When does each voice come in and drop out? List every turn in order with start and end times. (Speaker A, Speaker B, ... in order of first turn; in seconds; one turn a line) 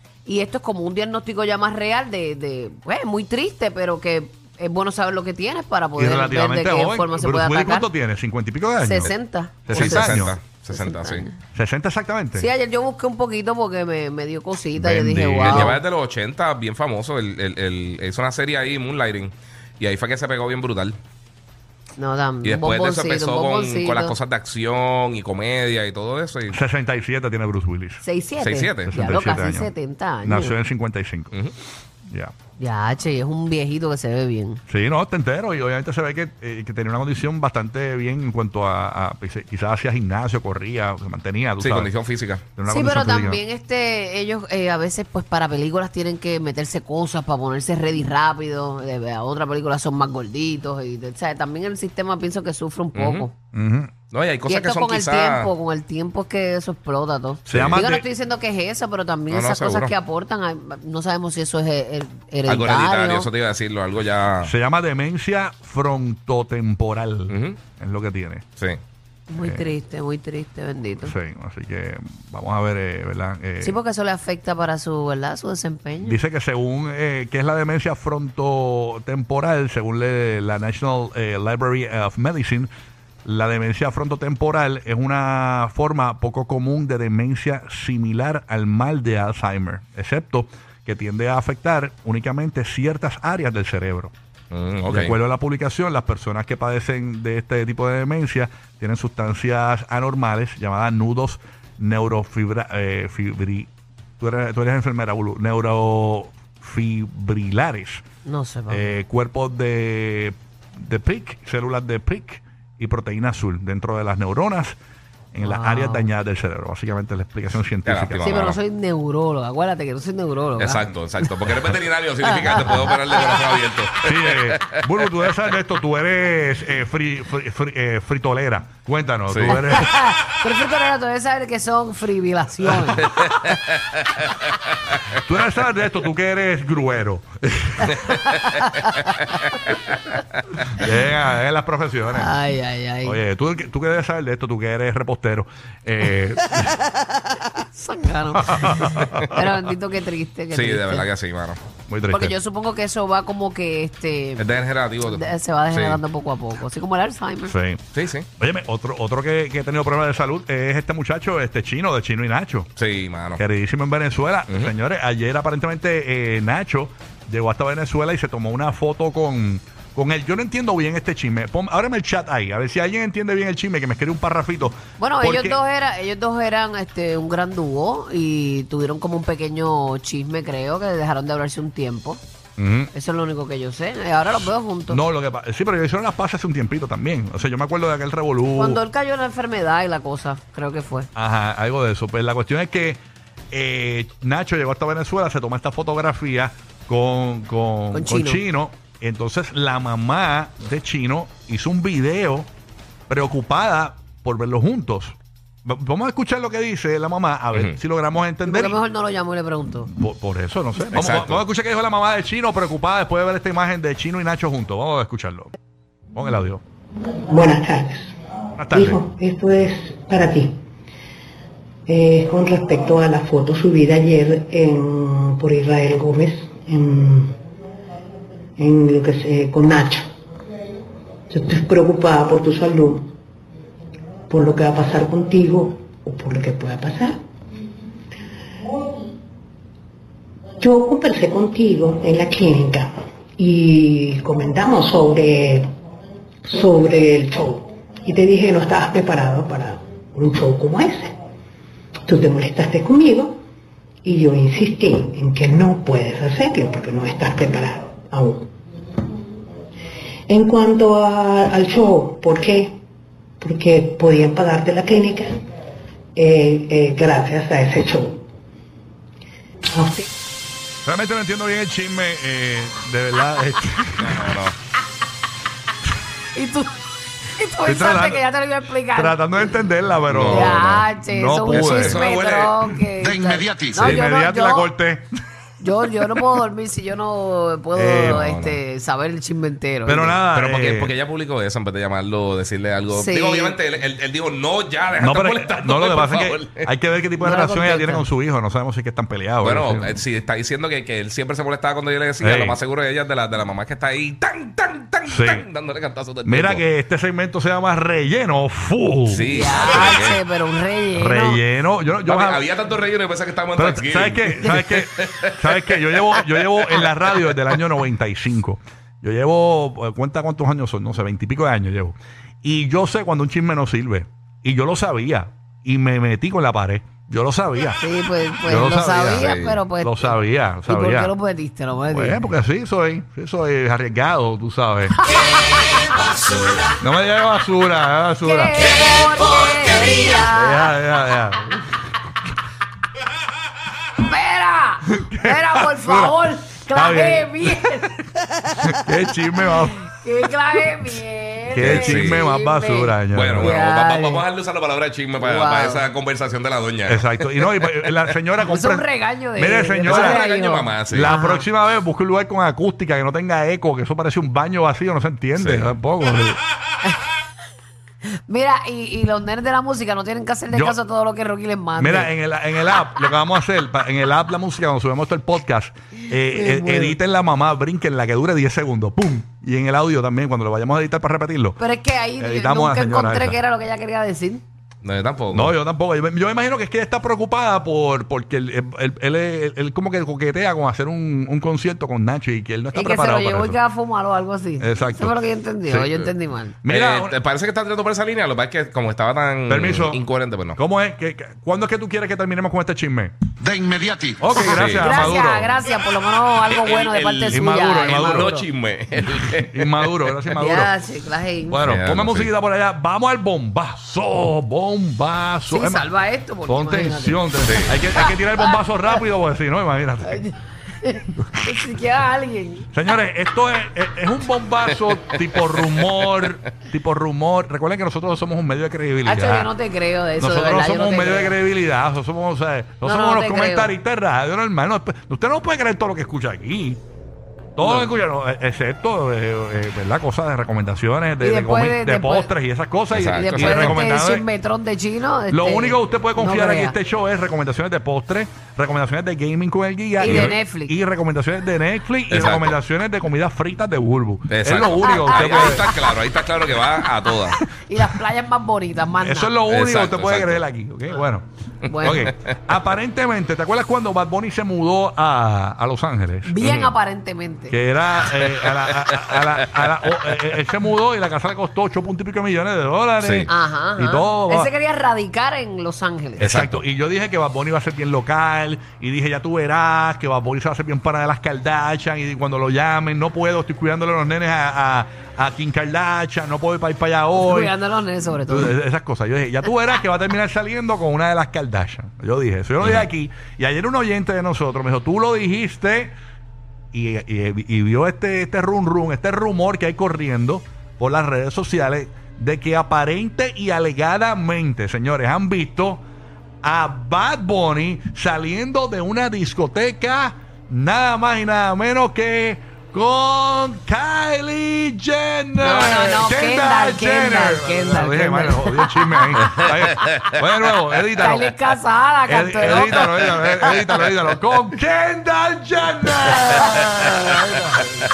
Speaker A: 0.2-7.9
Speaker B: 6.0-10.4
Speaker A: 8.8-11.4
Speaker C: 9.7-11.3
Speaker B: 11.5-12.5
Speaker A: 12.3-15.8
Speaker B: 14.8-15.8
Speaker C: 15.4-21.0
Speaker A: 22.0-24.1
Speaker C: 22.4-26.6
Speaker B: 26.5-28.0
Speaker A: 28.0-30.6
Speaker C: 28.4-29.0
Speaker B: 28.9-29.7
Speaker B: 30.2-31.3
Speaker A: 32.6-34.6
Speaker B: 34.7-41.9
Speaker C: 41.6-42.4
Speaker B: 42.5-43.4
Speaker A: 42.7-53.3
Speaker C: 53.0-53.3
Speaker B: 53.5-53.9
Speaker C: 54.1-55.5
Speaker A: 54.5-63.3
Speaker B: 57.5-58.0
Speaker C: 57.5-57.8
Speaker C: 59.3-59.9
Speaker C: 62.5-64.5
Speaker B: 64.4-68.5
Speaker C: 67.3-67.6
Speaker A: 69.3-71.1
Speaker B: 69.4-69.7
Speaker B: 71.0-73.8
Speaker A: 73.6-76.2
Speaker B: 76.0-82.7
Speaker B: 83.2-94.1
Speaker C: 94.5-95.2
Speaker B: 94.9-103.7
Speaker B: 104.2-108.0
Speaker A: 108.2-108.9
Speaker B: 108.7-114.8
Speaker B: 115.3-118.3
Speaker A: 115.4-116.1
Speaker C: 117.8-118.6
Speaker A: 118.2-121.7
Speaker C: 120.6-124.6
Speaker A: 122.3-123.5
Speaker B: 124.0-129.9
Speaker C: 129.3-129.6
Speaker A: 129.5-133.1
Speaker C: 133.0-133.8
Speaker B: 135.1-138.0
Speaker A: 137.9-138.9
Speaker C: 138.1-138.4
Speaker B: 140.7-142.4
Speaker A: 142.1-143.2
Speaker B: 143.0-146.8
Speaker A: 147.7-151.1
Speaker B: 148.5-149.2
Speaker C: 149.0-149.3
Speaker C: 150.5-151.6
Speaker B: 151.9-152.4
Speaker A: 152.1-154.5
Speaker C: 154.4-156.0
Speaker A: 155.0-157.6
Speaker B: 157.5-157.8
Speaker C: 157.9-158.3
Speaker B: 158.4-162.7
Speaker C: 162.8-163.4
Speaker B: 163.4-175.6
Speaker A: 175.0-182.2
Speaker B: 182.6-182.9
Speaker A: 182.9-185.0
Speaker B: 184.3-188.8
Speaker A: 188.6-191.1
Speaker B: 191.2-193.0
Speaker B: 193.5-202.5
Speaker A: 197.9-198.4
Speaker B: 203.1-208.8
Speaker A: 208.4-209.9
Speaker B: 209.8-215.5
Speaker C: 210.9-211.4
Speaker B: 216.1-216.6
Speaker D: 217.3-218.1
Speaker B: 218.6-219.0
Speaker D: 218.7-220.6
Speaker D: 221.9-227.4
Speaker D: 228.6-230.1
Speaker D: 231.3-233.1
Speaker D: 234.3-237.2
Speaker D: 240.6-245.7
Speaker D: 246.4-251.2
Speaker D: 252.1-253.4
Speaker D: 254.0-258.5
Speaker D: 260.3-262.8
Speaker D: 263.4-265.3
Speaker D: 266.1-268.3
Speaker D: 269.7-270.1
Speaker B: 270.9-274.3
Speaker C: 274.0-274.6
Speaker A: 276.4-276.8
Speaker A: 277.4-279.3
Speaker B: 277.6-278.2
Speaker B: 278.9-282.1
Speaker C: 280.1-280.8
Speaker A: 280.3-284.7
Speaker C: 281.5-282.6
Speaker E: 283.0-283.9
Speaker B: 283.8-285.1
Speaker A: 285.6-290.2
Speaker B: 287.7-288.3
Speaker C: 288.0-288.6
Speaker B: 289.9-290.9
Speaker C: 290.3-296.6
Speaker A: 292.9-293.6
Speaker B: 295.0-300.0
Speaker A: 297.2-298.1
Speaker C: 299.4-306.6
Speaker B: 302.2-302.6
Speaker B: 305.1-305.5
Speaker B: 306.2-309.3
Speaker C: 309.1-310.2
Speaker A: 309.3-311.4
Speaker B: 310.9-312.4
Speaker C: 312.0-317.6
Speaker B: 313.5-327.8
Speaker A: 327.8-332.2
Speaker B: 328.4-331.1
Speaker C: 329.2-329.6
Speaker B: 331.9-335.0
Speaker A: 335.3-335.8
Speaker B: 336.8-338.8
Speaker A: 338.2-340.7
Speaker B: 340.1-341.5
Speaker A: 344.0-348.0
Speaker B: 344.9-347.8
Speaker A: 348.5-348.8
Speaker B: 348.6-349.9
Speaker A: 349.4-354.2
Speaker B: 351.5-353.5
Speaker C: 351.6-352.2
Speaker C: 353.1-357.9
Speaker A: 355.2-355.8
Speaker B: 356.9-360.3
Speaker A: 358.4-361.5
Speaker C: 359.9-361.1
Speaker B: 360.9-366.4
Speaker C: 365.4-365.7
Speaker A: 368.2-372.1
Speaker B: 370.5-370.8
Speaker B: 371.8-381.6
Speaker A: 376.1-377.0
Speaker A: 381.6-384.4
Speaker B: 382.2-383.4
Speaker C: 384.8-385.6
Speaker B: 385.3-393.6
Speaker A: 392.7-396.6
Speaker B: 394.6-396.1
Speaker B: 396.6-397.1
Speaker C: 396.7-400.6
Speaker B: 399.5-400.0
Speaker B: 400.6-403.1
Speaker E: 403.4-404.4
Speaker B: 404.2-405.7
Speaker A: 404.3-408.5
Speaker C: 404.4-405.1
Speaker C: 406.5-409.9
Speaker B: 407.3-408.4
Speaker B: 409.3-410.7
Speaker A: 410.4-411.6
Speaker B: 411.5-415.9
Speaker C: 411.6-412.3
Speaker A: 415.5-417.3
Speaker B: 416.5-420.3
Speaker A: 417.9-419.0
Speaker A: 420.0-422.7
Speaker B: 421.2-421.7
Speaker B: 422.7-429.5
Speaker A: 429.0-431.4
Speaker B: 430.2-436.8
Speaker A: 432.8-433.8
Speaker B: 437.6-444.3
Speaker A: 437.6-437.9
Speaker A: 441.2-442.3
Speaker C: 442.9-443.9
Speaker A: 443.1-446.8
Speaker B: 445.3-455.7
Speaker A: 450.0-450.8
Speaker C: 450.1-450.3
Speaker C: 452.1-452.6
Speaker C: 454.3-457.4
Speaker A: 454.6-455.9
Speaker A: 457.7-459.4
Speaker B: 459.0-461.3
Speaker C: 459.5-460.4
Speaker A: 461.7-462.1
Speaker B: 461.8-466.7
Speaker A: 466.2-467.6
Speaker C: 466.4-466.7
Speaker B: 467.5-474.5
Speaker C: 468.1-470.1
Speaker C: 473.0-473.3
Speaker A: 473.3-476.4
Speaker B: 476.2-487.6
Speaker C: 476.2-476.6
Speaker A: 487.1-488.6
Speaker B: 488.3-495.9
Speaker C: 492.6-492.9
Speaker B: 496.7-505.9
Speaker B: 506.4-521.3
Speaker A: 515.4-519.9
Speaker C: 519.3-520.1
Speaker A: 521.0-523.5
Speaker B: 522.1-527.5
Speaker C: 522.5-523.9
Speaker A: 526.1-527.5
Speaker C: 526.6-527.3